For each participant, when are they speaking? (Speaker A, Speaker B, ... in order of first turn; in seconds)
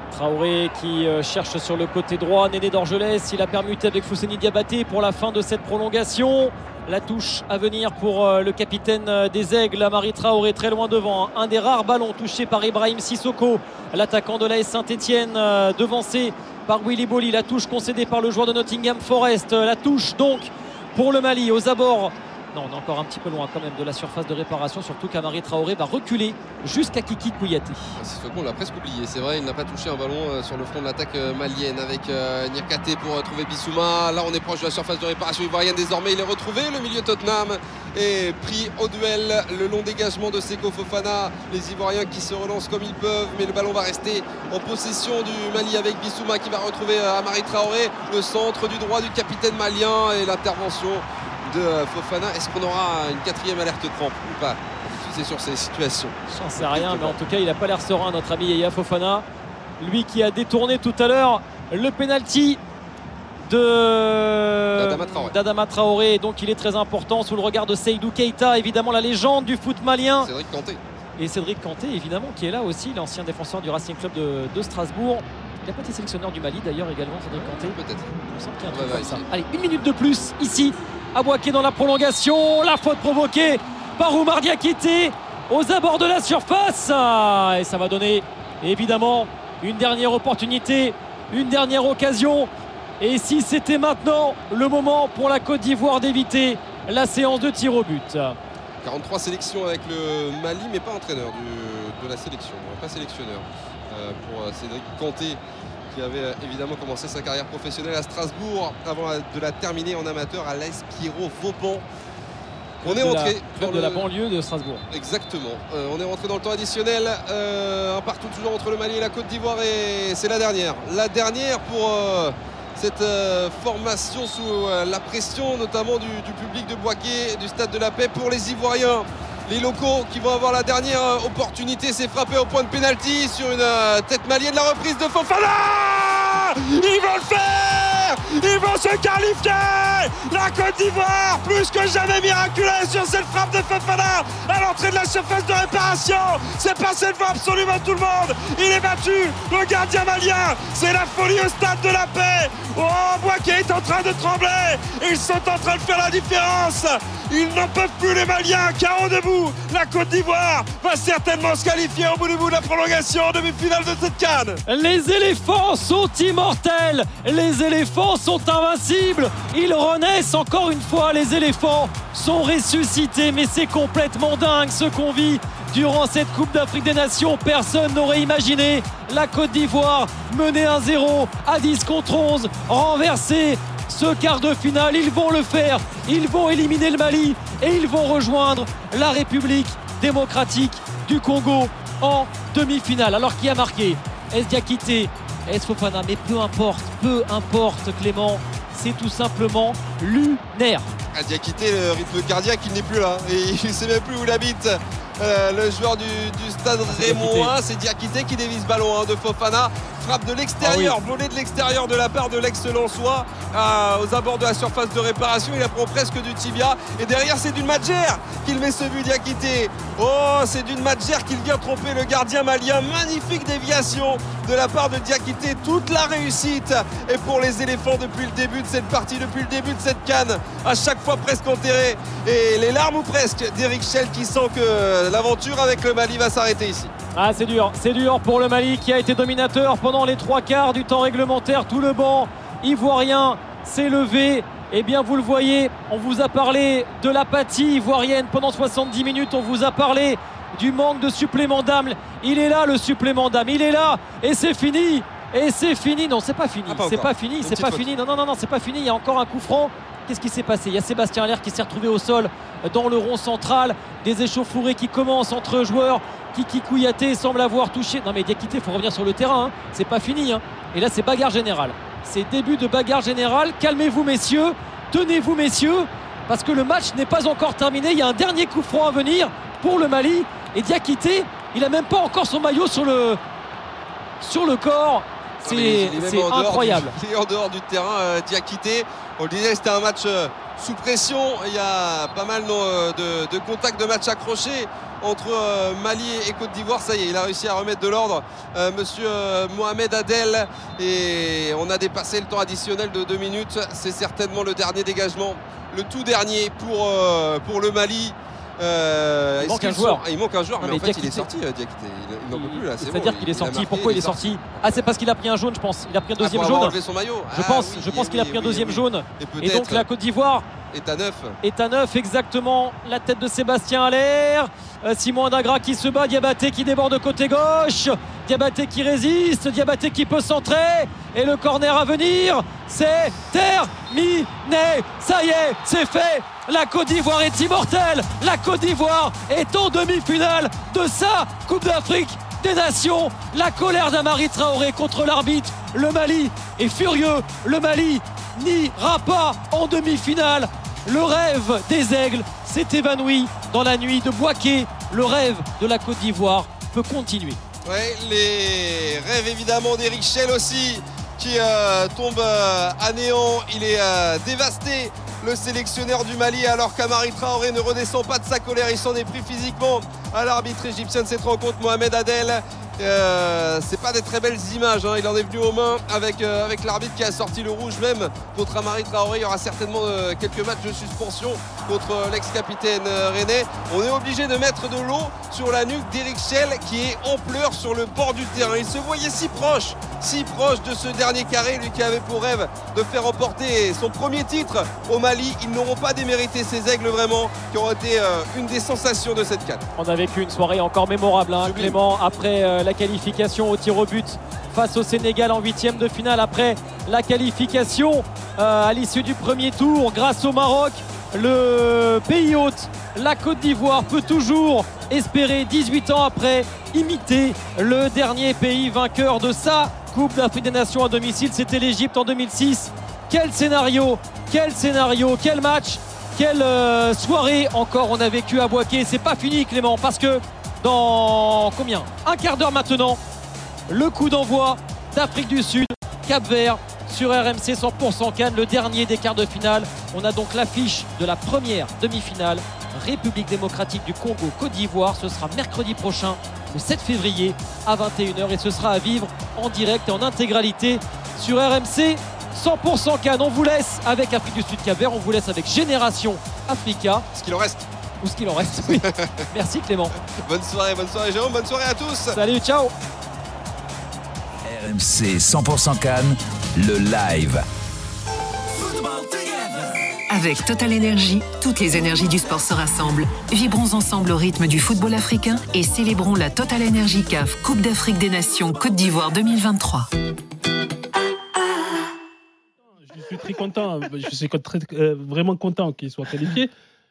Speaker A: 0.1-27.9, 56.3-59.2, 59.8-62.6, 63.4-70.3, 71.2-98.4, 112.8-114.8, 164.7-200.9, 206.9-207.5, 210.6-210.9, 237.1-283.2, 284.2-286.9, 309.4-310.0, 310.6-311.3, 312.3-316.8, 317.3-320.5, 321.4-357.4, 399.8-433.0, 433.7-457.0, 458.0-459.9, 462.1-462.7
Speaker B: 28.0-57.1, 64.8-65.3, 70.2-70.8, 77.3-78.1, 78.7-79.2, 98.8-111.8, 112.8-114.0, 114.9-164.6, 201.1-236.9, 256.7-257.9, 285.4-314.8, 316.2-319.9, 320.7-321.4, 357.6-399.6, 401.4-401.8, 457.1-457.6, 458.6-459.2, 460.1-462.2
Speaker C: 464.4-467.4
Speaker D: 470.1-479.9
Speaker E: 482.9-486.5